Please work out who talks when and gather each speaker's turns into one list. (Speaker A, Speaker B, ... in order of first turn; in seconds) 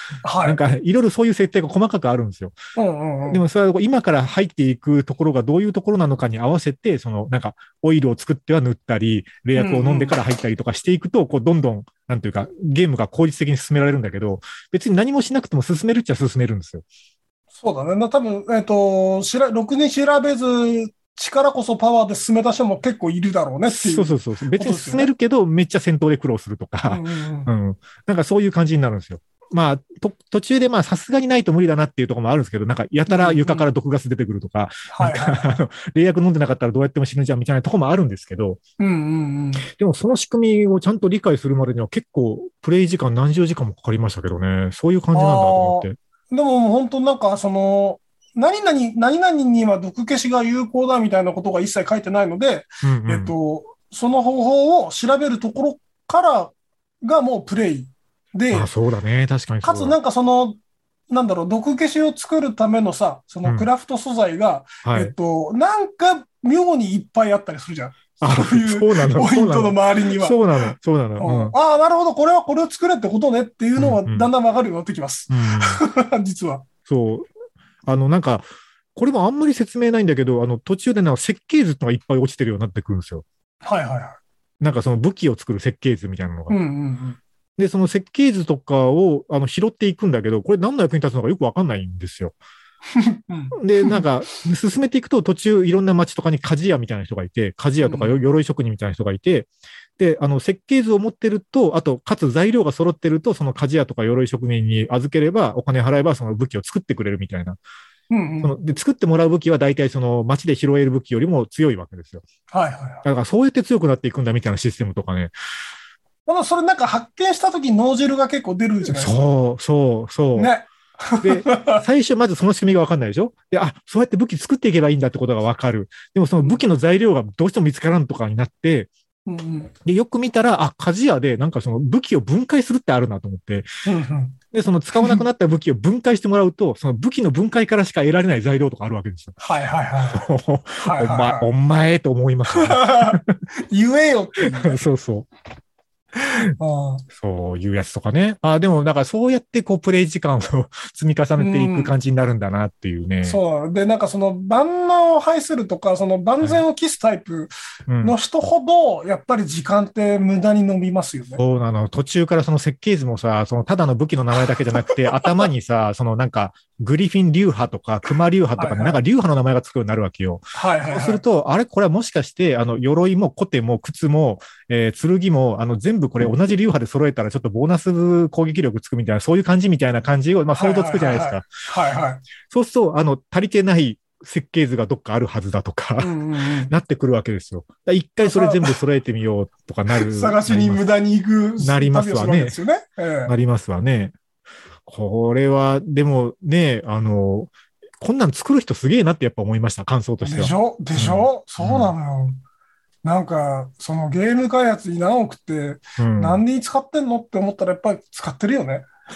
Speaker A: 0.2-0.6, 2.8-3.4, 9.5-10.2, 17.6-25.1, 26.9-27.5, 33.1-33.7, 34.9-35.6, 38.8-39.7, 45.1-58.7, 59.6-60.6, 61.1-76.7, 83.6-84.2, 86.5-87.2, 92.9-94.0, 97.8-98.1, 108.1-108.5, 112.5-113.0, 116.2-119.1, 120.3-121.8, 129.3-129.7, 133.8-134.4, 135.0-135.2, 139.4-140.3, 140.8-141.5, 142.5-144.8, 146.2-147.0, 151.4-151.9, 153.2-161.4, 164.8-165.4, 168.6-169.0, 170.5-171.2, 180.5-182.2, 186.0-186.7, 188.2-188.8, 189.9-193.3, 200.2-202.4, 203.0-208.8
Speaker B: 0.4-2.5, 3.3-16.8, 23.7-38.6, 39.6-46.0, 52.8-53.3, 58.5-60.0, 64.8-65.1, 68.2-71.5, 73.8-74.3, 75.3-75.8, 76.9-77.3, 77.8-83.2, 84.6-86.5, 87.6-92.3, 93.5-107.6, 108.4-112.2, 113.0-115.3, 118.8-120.5, 121.2-128.9, 129.8-133.7, 134.5-139.3, 140.1-143.3, 144.5-145.3, 147.1-153.4, 157.9-158.1, 161.4-181.5, 182.5-186.2, 186.7-190.8, 191.6-192.6, 193.2-194.1, 194.8-201.9, 206.0-206.4